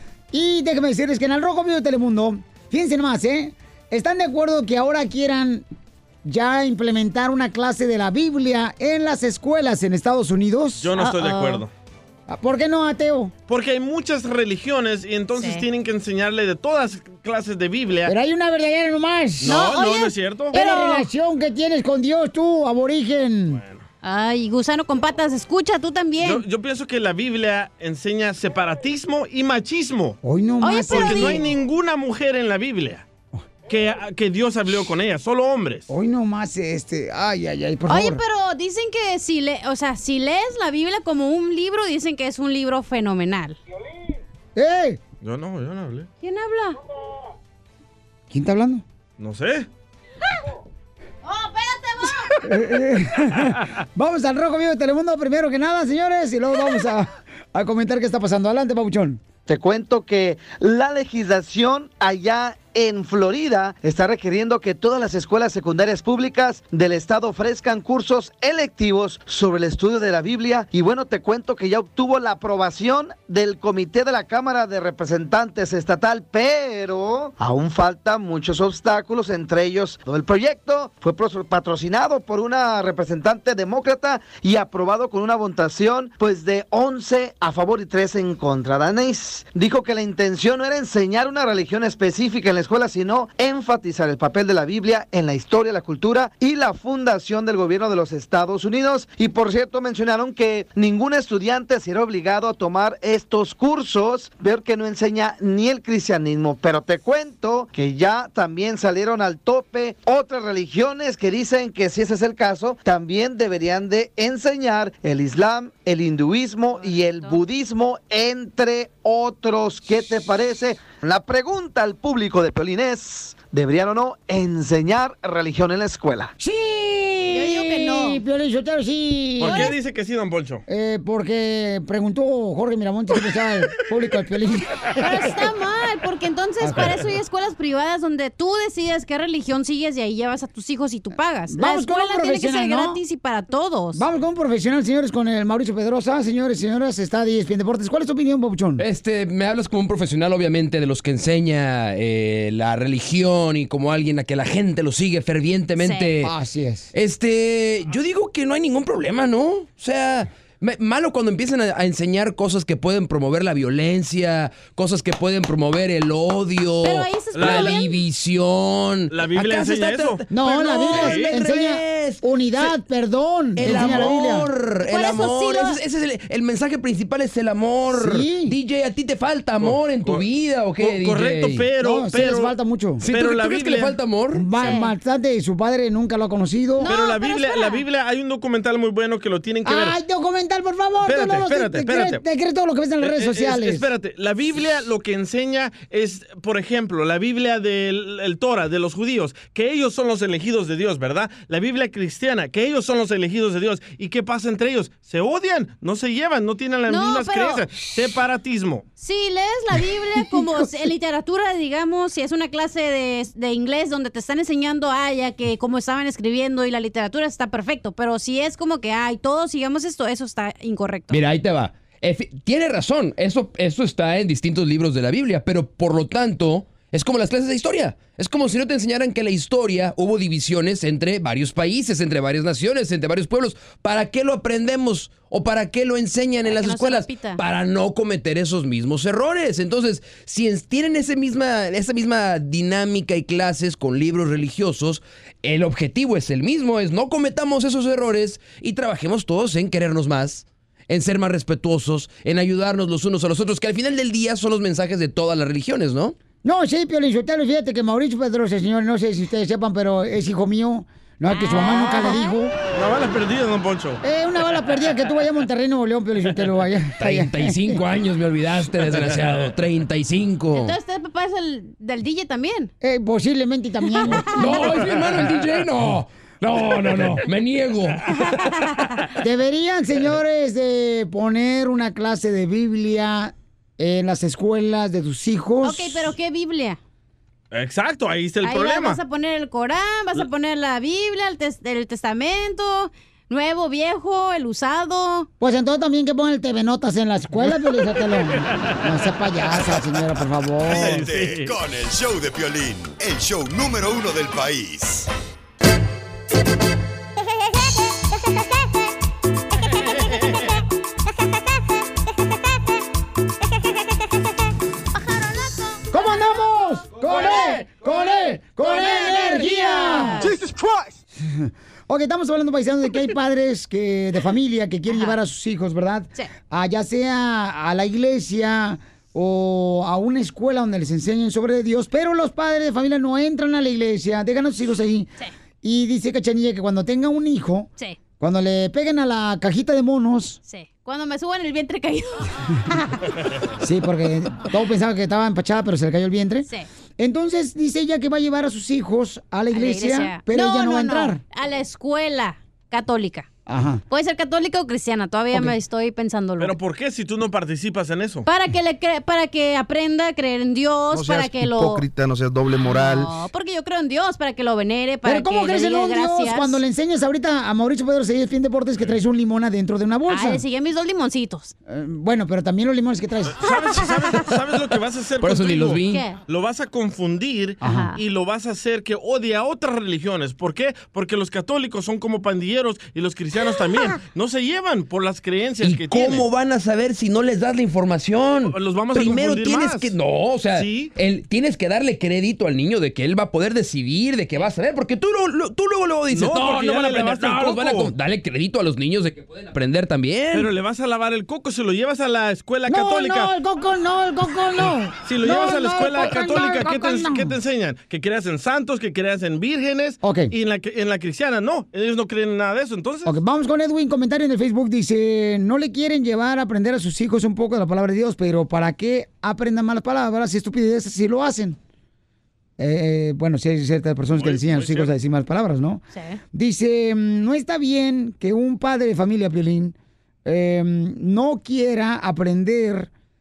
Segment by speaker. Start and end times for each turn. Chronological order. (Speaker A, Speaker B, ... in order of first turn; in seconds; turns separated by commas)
Speaker A: 0.3-5.6, Speaker A: 6.2-10.9, Speaker B: 10.8-11.7, Speaker C: 11.0-11.6, Speaker A: 12.3-13.3, Speaker B: 13.5-18.1, Speaker C: 15.3-15.6, Speaker A: 18.1-19.6, Speaker B: 19.4-20.5, Speaker C: 19.4-21.1, Speaker A: 20.5-23.6, Speaker B: 23.5-23.8, Speaker C: 24.0-26.4, Speaker B: 26.2-30.2, Speaker A: 30.2-31.4, Speaker C: 30.6-31.4, Speaker B: 30.9-33.0, Speaker B: 33.7-35.9, Speaker A: 35.9-38.2, Speaker C: 37.9-43.6, Speaker A: 44.5-45.0, Speaker B: 45.2-46.1, Speaker C: 46.2-46.8, Speaker A: 48.3-48.8, Speaker B: 49.2-49.7, Speaker C: 51.2-52.4, Speaker A: 52.4-59.2, Speaker D: 59.5-126.3, Speaker C: 116.7-117.4, Speaker A: 126.4-129.7, Speaker C: 127.3-128.2, Speaker B: 129.4-130.6, Speaker C: 129.5-129.7, Speaker A: 130.7-135.4, Speaker C: 135.0-144.0, Speaker A: 136.6-137.0, Speaker A: 141.5-143.0, Speaker A: 143.9-148.8, Speaker E: 148.8-156.3, Speaker C: 155.8-156.2, Speaker A: 156.2-156.9, Speaker E: 156.9-172.2, Speaker C: 166.8-167.9, Speaker B: 167.3-167.8, Speaker B: 169.1-171.3, Speaker A: 170.3-174.5, Speaker E: 173.6-181.6, Speaker B: 173.6-174.1, Speaker C: 174.8-175.8, Speaker A: 177.9-178.6, Speaker B: 179.6-184.0, Speaker A: 181.8-183.0, Speaker E: 183.0-184.4, Speaker A: 184.3-186.9, Speaker C: 184.5-184.9, Speaker C: 186.8-187.8, Speaker B: 186.8-190.0, Speaker A: 189.6-193.8, Speaker B: 191.0-192.2, Speaker B: 193.0-208.8, Speaker C: 206.9-207.6, Speaker C: 209.0-221.2, Speaker E: 221.1-256.1, Speaker C: 236.4-237.4, Speaker A: 256.4-262.5, Speaker C: 261.3-262.3, Speaker B: 262.7-264.0, Speaker A: 264.0-267.8, Speaker E: 267.0-270.8, Speaker C: 270.5-272.7, Speaker A: 272.8-274.8, Speaker C: 273.9-274.8, Speaker E: 274.4-278.0, Speaker C: 278.1-279.0, Speaker A: 279.2-286.1, Speaker C: 285.6-286.8, Speaker B: 287.5-289.0, Speaker C: 288.4-295.3, Speaker A: 295.4-301.1, Speaker B: 300.6-301.5, Speaker F: 300.7-305.1, Speaker C: 315.1-315.8, Speaker A: 315.9-320.3, Speaker C: 318.6-320.4, Speaker A: 321.1-335.1, Speaker C: 324.9-325.1, Speaker A: 335.6-340.4, Speaker C: 340.4-343.0, Speaker A: 343.6-351.2, Speaker C: 349.5-353.3, Speaker A: 353.5-353.8, Speaker C: 353.9-356.5, Speaker B: 356.4-358.3, Speaker C: 358.3-361.9, Speaker C: 362.6-366.6, Speaker A: 365.0-370.4, Speaker C: 370.1-371.5, Speaker A: 371.7-373.4, Speaker B: 373.3-386.3, Speaker E: 375.2-376.0, Speaker C: 375.9-376.2, Speaker A: 377.6-377.9, Speaker C: 377.6-378.0, Speaker E: 385.6-400.5, Speaker B: 388.4-389.9, Speaker B: 390.5-390.9, Speaker B: 396.1-397.9, Speaker B: 400.3-403.3, Speaker A: 402.7-407.3, Speaker B: 405.0-413.1, Speaker A: 410.0-410.3, Speaker A: 413.1-421.6, Speaker A: 422.6-432.9, Speaker B: 424.1-424.9, Speaker C: 425.9-426.2